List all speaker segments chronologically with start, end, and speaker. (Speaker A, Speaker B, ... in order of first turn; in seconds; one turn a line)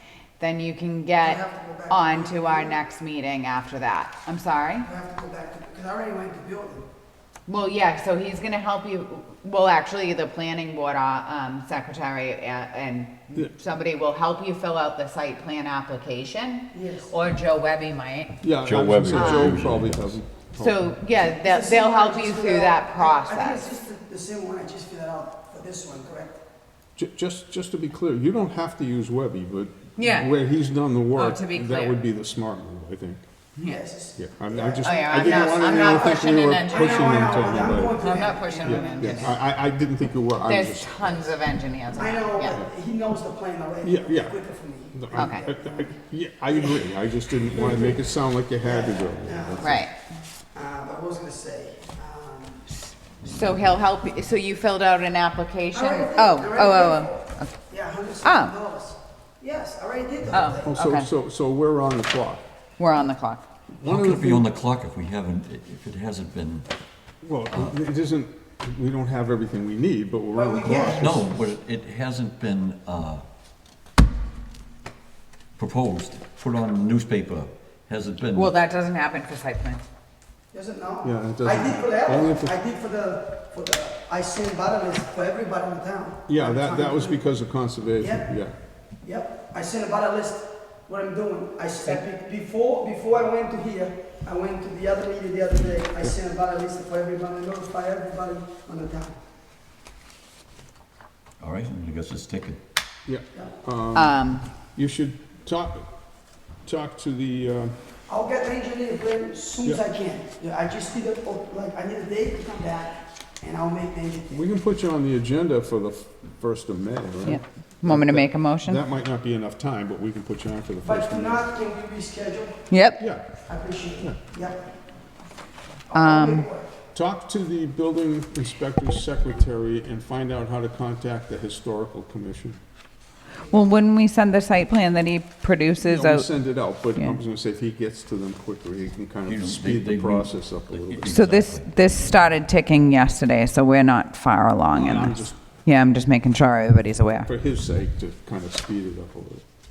Speaker A: 0.4-4.9
Speaker B: 1.2-2.8
Speaker B: 4.8-6.9
Speaker A: 7.5-18.4
Speaker B: 16.7-17.1
Speaker C: 18.4-20.9
Speaker D: 18.6-20.2
Speaker A: 19.1-19.6
Speaker A: 20.6-23.7
Speaker B: 21.3-26.4
Speaker C: 27.0-33.2
Speaker A: 30.0-30.3
Speaker A: 31.1-32.0
Speaker A: 33.6-33.8
Speaker B: 33.6-39.4
Speaker C: 34.2-41.1
Speaker A: 34.8-39.4
Speaker A: 40.4-42.6
Speaker B: 41.9-48.0
Speaker C: 43.8-44.4
Speaker C: 44.9-49.8
Speaker A: 45.1-45.5
Speaker B: 48.6-49.7
Speaker A: 49.6-49.9
Speaker B: 50.5-52.7
Speaker A: 53.2-57.5
Speaker B: 55.7-60.8
Speaker A: 58.2-58.6
Speaker A: 60.3-61.1
Speaker C: 60.6-62.4
Speaker A: 62.8-63.5
Speaker C: 63.8-64.5
Speaker D: 63.9-66.7
Speaker C: 67.2-71.3
Speaker D: 67.5-67.7
Speaker B: 70.3-71.2
Speaker D: 70.8-73.2
Speaker D: 75.6-78.6
Speaker A: 78.3-79.8
Speaker B: 80.5-87.2
Speaker C: 81.0-82.6
Speaker C: 86.3-88.5
Speaker B: 88.0-88.3
Speaker B: 89.0-99.2
Speaker D: 101.4-102.6
Speaker C: 103.1-104.2
Speaker A: 103.9-104.5
Speaker C: 104.8-105.8
Speaker C: 106.6-107.7
Speaker B: 108.1-114.4
Speaker C: 114.3-121.5
Speaker A: 117.2-118.8
Speaker B: 120.8-122.8
Speaker A: 122.7-123.0
Speaker C: 123.0-123.4
Speaker B: 123.4-124.7
Speaker B: 125.9-126.7
Speaker A: 125.9-126.5
Speaker C: 126.9-132.6
Speaker A: 133.5-136.3
Speaker C: 135.8-141.2
Speaker D: 139.3-141.8
Speaker A: 141.1-147.3
Speaker C: 144.7-145.4
Speaker C: 147.2-149.4